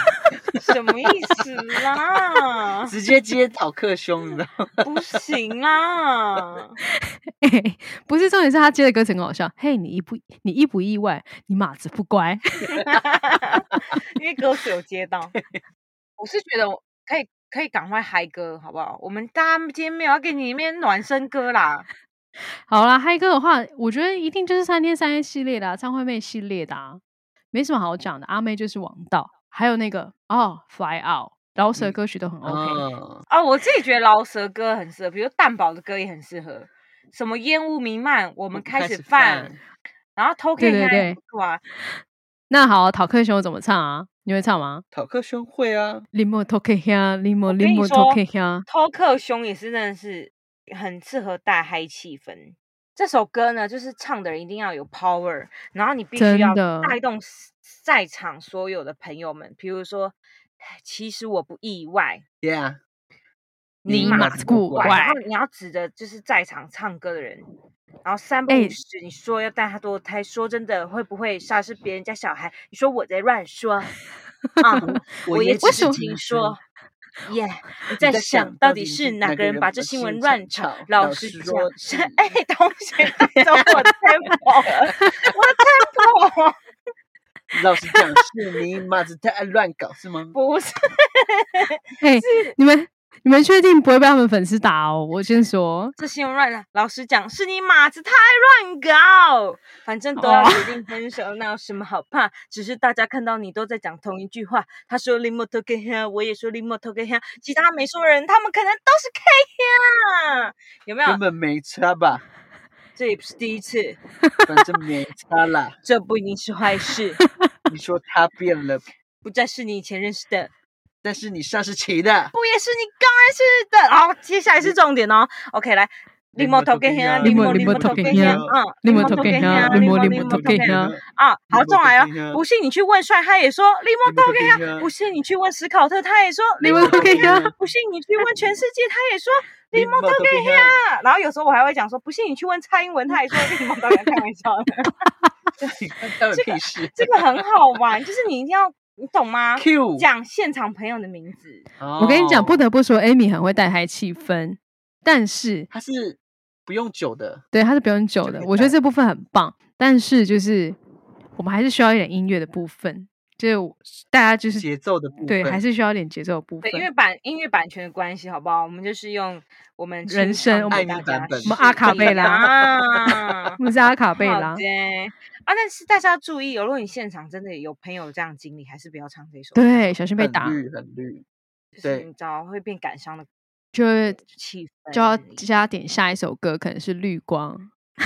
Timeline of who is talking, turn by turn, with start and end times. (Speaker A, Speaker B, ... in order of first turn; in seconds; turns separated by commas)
Speaker A: 0.6-2.9, Speaker B: 2.9-4.9, Speaker A: 4.8-6.8, Speaker C: 7.4-12.8, Speaker A: 12.8-15.4, Speaker B: 15.3-15.6, Speaker A: 16.2-21.9, Speaker C: 22.7-27.0, Speaker C: 27.5-32.9, Speaker B: 31.8-33.2, Speaker A: 33.3-39.6, Speaker B: 38.5-39.6, Speaker A: 40.2-41.6, Speaker C: 40.6-41.2, Speaker C: 42.5-44.8, Speaker B: 44.9-46.1, Speaker C: 46.1-48.7, Speaker A: 47.5-62.2, Speaker C: 56.2-57.0, Speaker B: 62.4-62.8, Speaker B: 63.9-65.1, Speaker A: 63.9-67.5, Speaker C: 63.9-65.2, Speaker A: 68.0-74.0, Speaker C: 68.5-68.8, Speaker A: 74.6-76.6, Speaker C: 74.6-74.9, Speaker B: 74.8-76.6, Speaker C: 75.6-76.0, Speaker A: 77.2-86.6, Speaker B: 78.0-82.3, Speaker B: 83.1-83.7, Speaker B: 87.5-90.3, Speaker A: 90.3-92.5, Speaker C: 92.0-96.0, Speaker A: 96.0-111.2, Speaker C: 100.2-100.7, Speaker B: 111.0-112.2, Speaker A: 113.0-114.0, Speaker B: 114.5-115.8, Speaker A: 115.8-117.2, Speaker B: 117.7-118.8, Speaker A: 119.2-120.5, Speaker B: 121.0-122.3, Speaker A: 122.3-144.9, Speaker B: 126.4-132.4, Speaker C: 127.2-130.9, Speaker B: 134.1-134.9, Speaker B: 136.6-137.5, Speaker C: 136.6-137.5, Speaker B: 139.7-140.8, Speaker B: 145.6-147.4, Speaker A: 146.3-151.7, Speaker B: 149.6-150.1, Speaker B: 151.8-152.6, Speaker C: 152.0-155.7, Speaker B: 155.7-157.4, Speaker C: 157.5-160.8, Speaker B: 158.2-158.8, Speaker C: 161.4-164.7, Speaker B: 164.6-165.6, Speaker C: 165.2-166.9, Speaker A: 166.6-173.6, Speaker C: 170.1-170.9, Speaker B: 170.7-172.5, Speaker C: 171.4-172.5, Speaker C: 173.6-174.6, Speaker A: 174.2-180.0, Speaker C: 179.6-180.6, Speaker B: 180.2-181.2, Speaker A: 181.8-183.3, Speaker B: 181.8-182.1, Speaker C: 183.7-184.2, Speaker A: 184.2-185.4, Speaker C: 184.9-187.7